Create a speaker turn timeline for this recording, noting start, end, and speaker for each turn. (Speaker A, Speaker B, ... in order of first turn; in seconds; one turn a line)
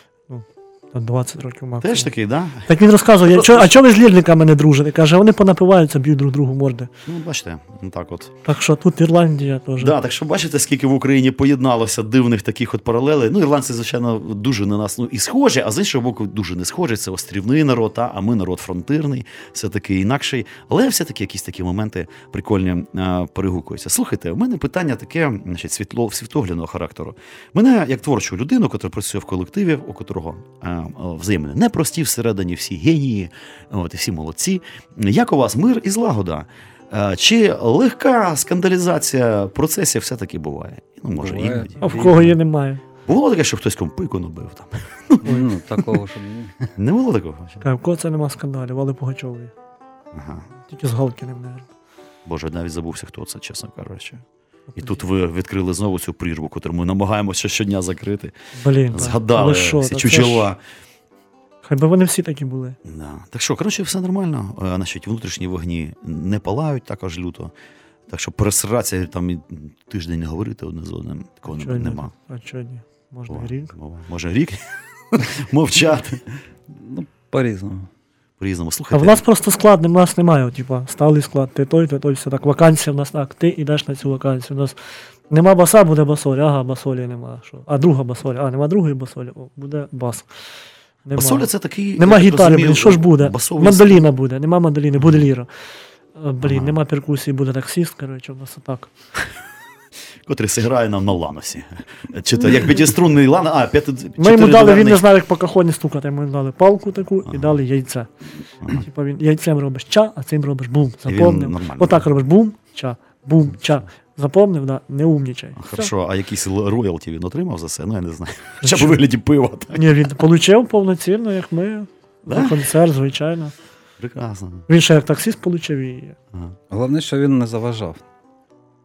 Speaker A: 0.3-2.1
Speaker B: 1.8-2.7
Speaker A: 2.7-6.9
Speaker B: 3.2-3.7
Speaker B: 7.0-8.3
Speaker A: 8.5-9.9
Speaker B: 9.8-42.4
Speaker C: 41.2-42.2
Speaker A: 41.8-42.8
Speaker B: 43.0-46.0
Speaker C: 45.2-46.6
Speaker B: 46.7-47.6
Speaker A: 47.6-49.5
Speaker B: 50.1-50.5
Speaker A: 50.6-51.7
Speaker B: 52.3-54.2
Speaker A: 54.7-55.0
Speaker B: 54.8-58.3
Speaker A: 58.5-60.5
Speaker B: 58.9-60.6
Speaker A: 61.6-62.8
Speaker B: 62.8-67.5
Speaker B: 68.1-72.1
Speaker A: 71.5-73.7
Speaker B: 73.3-76.3
Speaker C: 76.7-77.9
Speaker B: 78.4-79.2
Speaker A: 78.9-84.8
Speaker A: 85.3-90.3
Speaker A: 91.0-95.5
Speaker B: 91.2-94.0
Speaker A: 96.2-98.9
Speaker B: 96.4-96.8
Speaker B: 100.2-105.0
Speaker A: 104.2-108.1
Speaker B: 107.3-107.6
Speaker A: 108.6-115.9
Speaker B: 111.1-112.0
Speaker B: 115.6-119.8
Speaker A: 118.6-119.0
Speaker A: 119.7-123.5
Speaker B: 122.3-122.6
Speaker B: 124.0-124.7
Speaker A: 124.7-126.2
Speaker C: 126.7-128.0